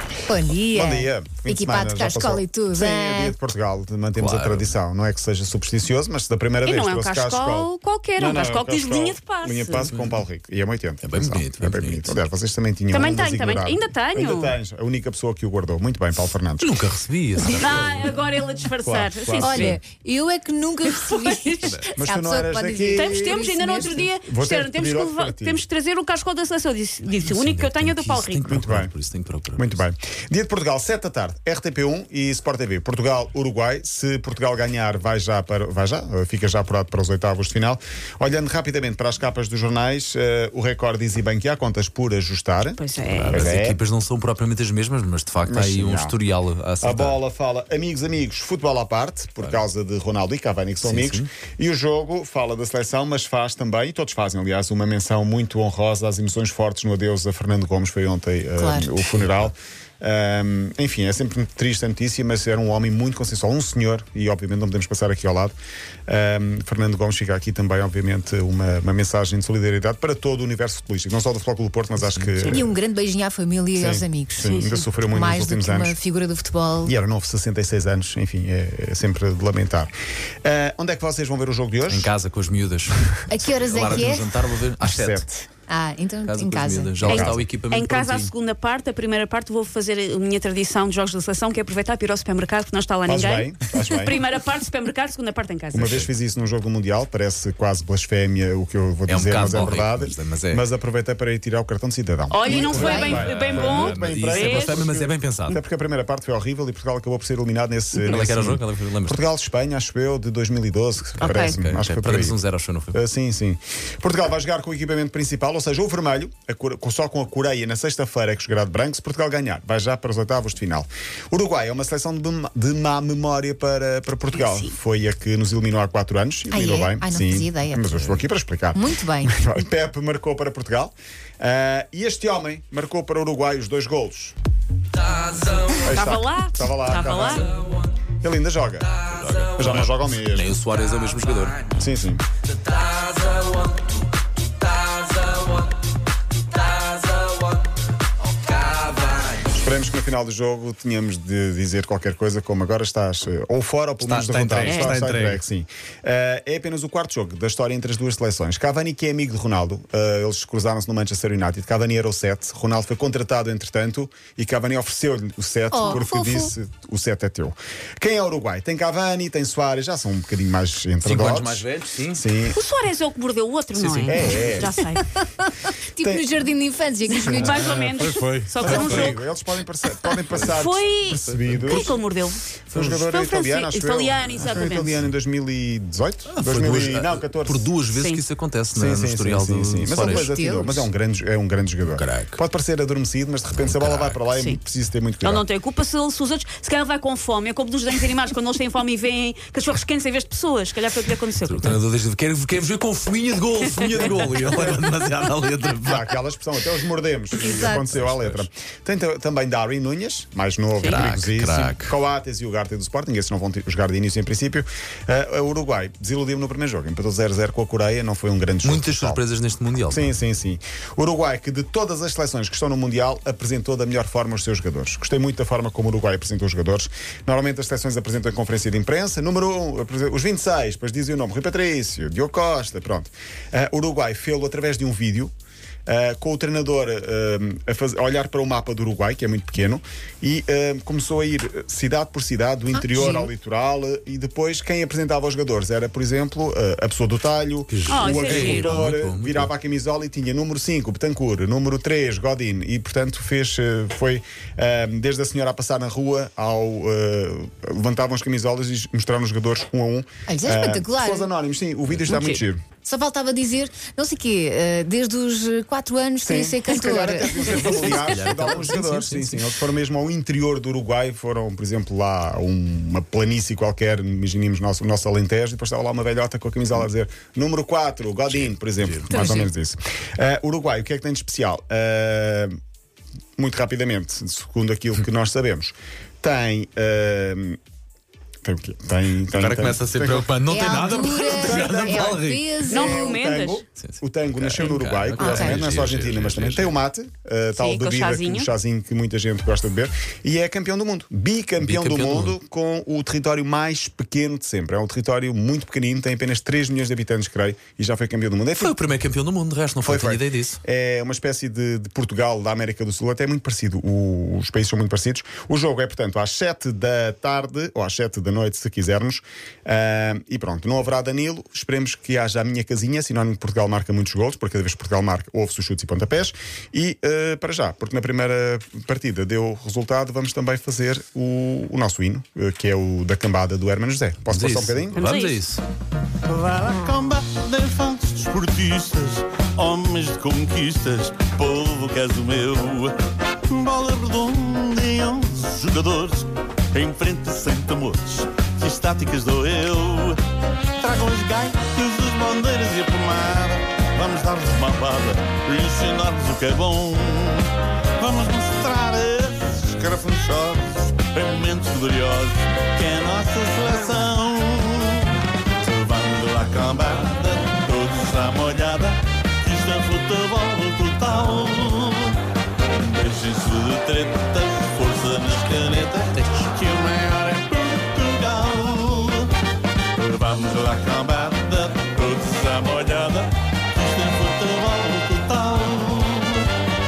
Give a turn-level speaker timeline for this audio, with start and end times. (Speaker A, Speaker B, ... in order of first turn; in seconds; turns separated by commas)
Speaker A: 0.2-3.4, Speaker B: 0.7-16.8, Speaker C: 4.2-4.7, Speaker D: 6.7-9.9, Speaker C: 9.9-10.2, Speaker C: 11.0-12.2, Speaker D: 12.9-14.6, Speaker C: 16.6-18.1, Speaker D: 17.4-19.8, Speaker B: 18.8-19.8, Speaker A: 19.4-24.1, Speaker D: 20.9-21.8, Speaker B: 22.0-23.3, Speaker D: 23.0-28.7, Speaker B: 24.3-25.6, Speaker C: 27.2-29.8, Speaker B: 28.5-28.9, Speaker B: 29.6-43.8, Speaker D: 42.8-43.5, Speaker C: 43.0-47.2, Speaker B: 45.5-46.2, Speaker B: 46.8-65.6, Speaker C: 50.8-51.3, Speaker A: 58.6-59.2, Speaker B: 66.1-72.7, Speaker A: 72.4-76.9, Speaker B: 73.8-76.0, Speaker D: 74.4-74.8, Speaker B: 76.8-79.9, Speaker B: 80.4-82.1, Speaker C: 81.9-85.3, Speaker A: 83.3-84.3, Speaker B: 84.8-85.3, Speaker A: 85.7-87.1, Speaker C: 86.3-88.3, Speaker D: 87.0-96.1, Speaker B: 87.0-87.5, Speaker B: 93.1-94.2, Speaker B: 95.7-112.4, Speaker C: 99.1-100.6, Speaker D: 102.3-104.9, Speaker A: 102.5-103.3, Speaker C: 102.8-105.6, Speaker C: 107.9-109.2, Speaker D: 111.2-111.6, Speaker C: 111.5-113.0, Speaker B: 112.9-134.3, Speaker D: 124.3-124.7, Speaker A: 126.5-128.2, Speaker A: 128.7-129.5, Speaker C: 135.1-135.8, Speaker D: 135.3-137.5, Speaker B: 135.8-137.6, Speaker B: 138.2-138.9, Speaker C: 139.0-141.8, Speaker B: 139.5-140.5, Speaker B: 141.8-142.2, Speaker C: 142.8-143.8, Speaker C: 144.9-145.5, Speaker C: 146.7-147.6, Speaker C: 148.5-149.4, Speaker B: 149.5-172.6, Speaker C: 154.0-155.4, Speaker D: 154.6-154.9, Speaker A: 165.7-166.5, Speaker C: 171.0-172.2, Speaker D: 172.4-175.0, Speaker C: 173.7-174.7, Speaker B: 174.1-174.7, Speaker A: 175.2-177.7, Speaker B: 176.0-176.3, Speaker B: 177.2-177.5, Speaker D: 177.2-179.2, Speaker C: 177.4-179.1, Speaker B: 178.6-181.9, Speaker D: 180.3-185.0, Speaker C: 181.3-181.9, Speaker B: 182.7-187.7, Speaker C: 186.3-190.3, Speaker D: 187.9-188.2, Speaker B: 188.7-195.4, Speaker A: 189.9-190.8, Speaker C: 191.9-192.4, Speaker C: 193.5-194.2, Speaker D: 194.3-194.6, Speaker D: 195.2-201.8, Speaker C: 201.4-206.1, Speaker B: 204.5-204.8, Speaker B: 205.8-219.2, Speaker C: 207.4-208.5, Speaker A: 207.4-207.8, Speaker D: 210.8-211.1, Speaker C: 210.9-211.9, Speaker C: 218.6-220.1, Speaker B: 219.9-235.3, Speaker B: 235.9-262.6, Speaker A: 242.7-243.3, Speaker C: 247.7-249.5, Speaker D: 247.9-248.8, Speaker A: 260.3-261.3, Speaker D: 262.1-262.4, Speaker A: 262.9-267.9, Speaker B: 266.2-282.6, Speaker C: 267.5-269.4, Speaker C: 278.3-279.1, Speaker D: 279.1-279.5, Speaker B: 283.4-287.6, Speaker B: 288.4-308.8, Speaker C: 289.3-292.5, Speaker A: 290.5-293.1, Speaker D: 292.7-293.6, Speaker C: 293.8-296.8, Speaker A: 295.2-295.6, Speaker D: 297.6-298.5, Speaker C: 301.6-302.4, Speaker C: 308.6-310.6, Speaker B: 309.8-335.1, Speaker C: 334.2-335.6, Speaker D: 334.9-335.4, Speaker E: 336.2-343.0, Speaker E: 343.5-350.2, Speaker E: 350.8-372.2, Speaker E: 372.7-379.3, Speaker E: 380.0-386.5